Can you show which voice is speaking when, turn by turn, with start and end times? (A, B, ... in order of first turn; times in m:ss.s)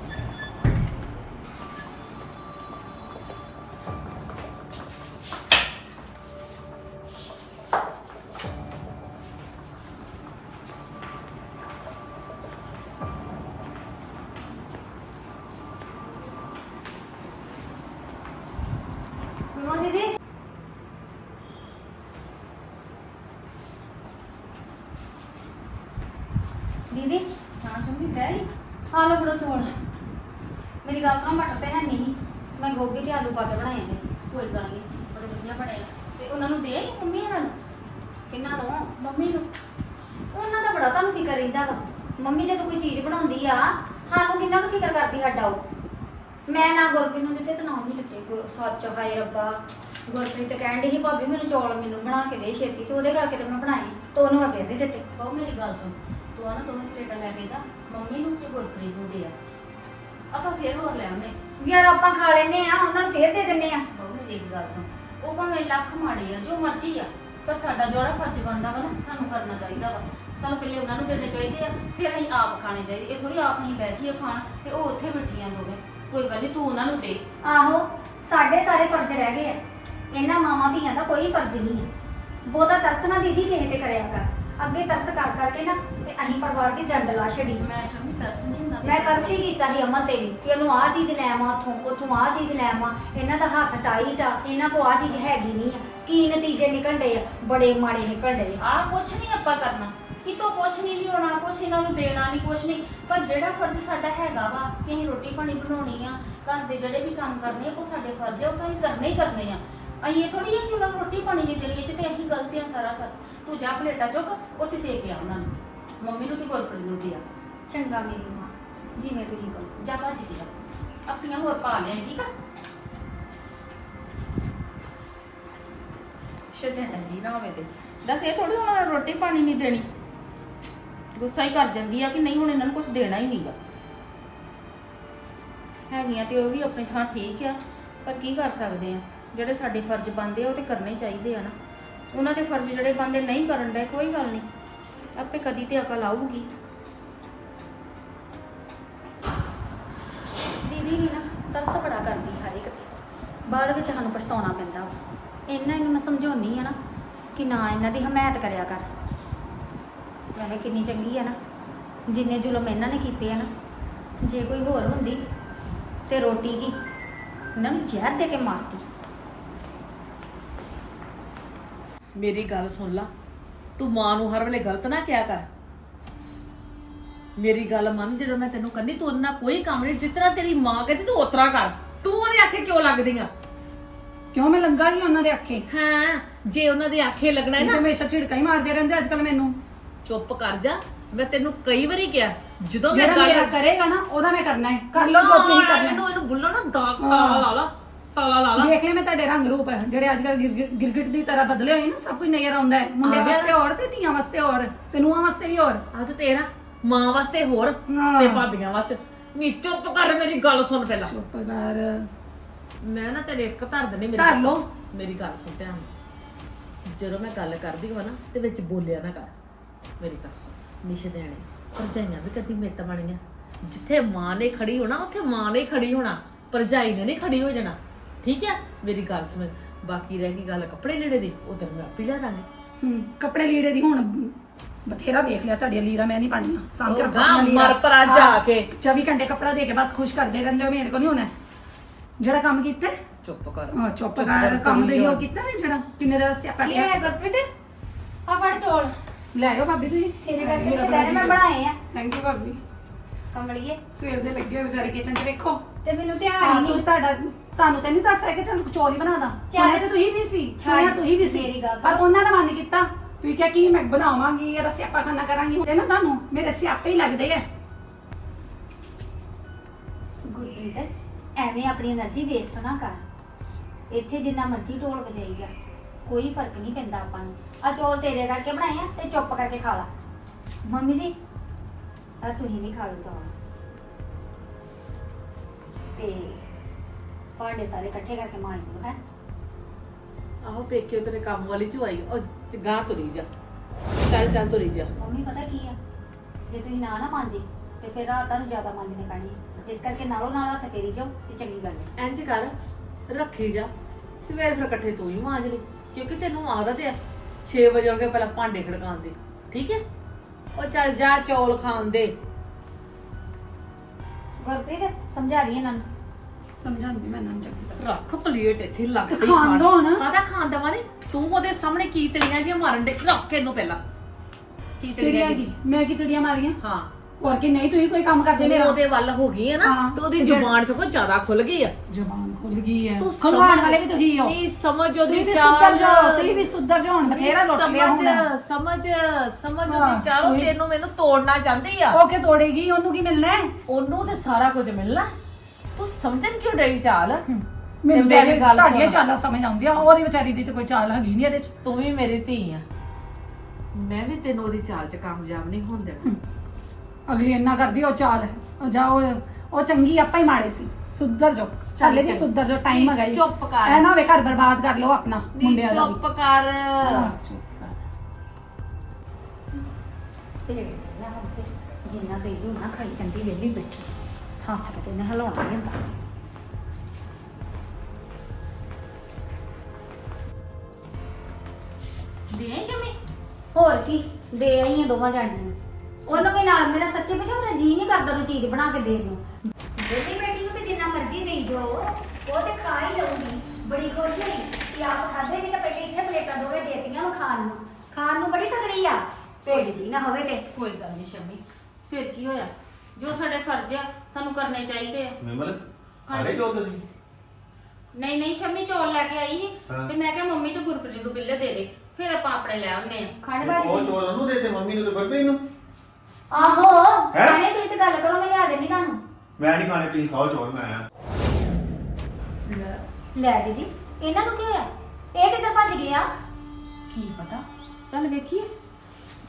0:19.5-0:20.1 A
0:26.9-0:27.2 A
0:27.6-0:28.5 B
0:28.9-0:29.7 A
0:30.8-0:34.0 A
0:34.3-0:37.5 B
0:38.3-0:38.9 A
0:39.0-0:39.4 B
0:40.3-0:45.6 A
0:46.5-0:55.0 A
0:55.2-0:59.3 B
1:00.3-1:01.3 B
1:01.6-1:03.8 A
1:03.9-1:17.2 B
1:17.4-1:19.6 A
1:20.1-1:21.9 A
1:22.4-1:27.7 A
1:27.5-1:29.5 B
1:28.8-1:38.6 A
1:38.6-1:57.2 B
1:57.7-1:59.8 A
1:59.8-2:00.5 B
2:01.1-2:02.3 B
2:06.5-2:09.8 B
2:11.2-2:13.5 B
2:15.9-2:21.5 B
2:22.1-2:24.5 B
2:25.2-2:26.5 B
2:30.6-2:32.9 A
2:33.5-2:34.9 A
2:35.5-2:36.8 A
2:37.3-2:38.9 A
2:40.3-2:41.4 A
2:42.1-2:43.5 A
2:44.2-2:45.2 A
2:46.1-2:46.8 A
2:47.6-2:48.8 A
2:52.2-2:53.1 C
2:53.8-2:55.4 C
2:57.4-3:03.3 C
3:04.3-3:05.6 D
3:05.7-3:07.8 C
3:07.6-3:09.6 D
3:10.0-3:13.5 C
3:12.9-3:16.0 D
3:14.9-3:18.7 C
3:17.0-3:17.5 D
3:18.5-3:25.8 D
3:23.0-3:23.5 C
3:25.9-3:31.1 C
3:27.9-3:28.5 D
3:31.0-3:32.1 D
3:32.8-3:35.9 C
3:34.1-3:34.7 D
3:36.8-3:39.3 C
3:40.0-3:52.4 C
3:52.8-3:54.3 D
3:54.9-4:01.3 D
3:56.8-3:58.7 C
4:02.2-4:03.0 D
4:03.2-4:05.2 C
4:03.7-4:06.9 D
4:06.6-4:07.5 A
4:08.3-4:08.9 A
4:09.3-4:12.6 D
4:10.2-4:11.8 A
4:13.3-4:13.8 A
4:14.0-4:15.6 D
4:15.8-4:16.8 A
4:16.4-4:27.4 D
4:19.5-4:19.9 A
4:20.6-4:22.0 A
4:30.3-4:33.0 A
4:33.9-4:35.5 A
4:36.0-4:39.9 A
4:40.6-4:41.1 A
4:42.2-4:43.3 A
4:45.9-4:46.4 A
4:47.4-4:49.0 A
4:50.4-4:53.3 C
4:54.1-4:54.9 C
4:55.0-4:55.8 A
4:56.5-5:01.9 A
5:02.0-5:02.5 C
5:03.1-5:09.8 C
5:10.5-5:12.1 C
5:14.4-5:15.8 A
5:16.6-5:17.8 D
5:17.8-5:23.8 C
5:19.1-5:20.1 D
5:24.8-5:25.4 C
5:25.0-5:26.6 D
5:26.6-5:26.9 C
5:27.2-5:28.8 D
5:28.4-5:31.7 C
5:29.6-5:30.5 D
5:31.9-5:34.4 D
5:33.0-5:36.5 C
5:35.0-5:38.3 D
5:37.0-5:42.0 C
5:39.6-5:40.5 D
5:41.9-5:43.5 D
5:43.7-5:45.1 C
5:45.8-5:47.2 C
5:47.3-5:51.5 D
5:47.9-5:49.0 C
5:51.6-5:52.6 C
5:53.7-5:56.1 C
5:57.1-6:06.0 D
6:01.8-6:03.8 C
6:05.3-6:07.1 C
6:06.8-6:07.7 D
6:10.4-6:13.9 A
6:14.4-6:15.8 A
6:22.3-6:23.0 B
6:23.5-6:25.6 A
6:26.1-6:29.2 A
6:29.8-6:40.4 A
6:40.5-6:45.2 B
6:45.2-6:46.8 E
6:46.1-6:46.4 B
6:47.9-6:53.1 B
6:53.2-6:54.0 A
6:53.4-6:55.4 E
6:56.3-6:59.0 A
6:57.1-6:57.4 E
6:59.4-7:00.8 E
7:02.5-7:06.1 A
7:06.9-7:08.5 B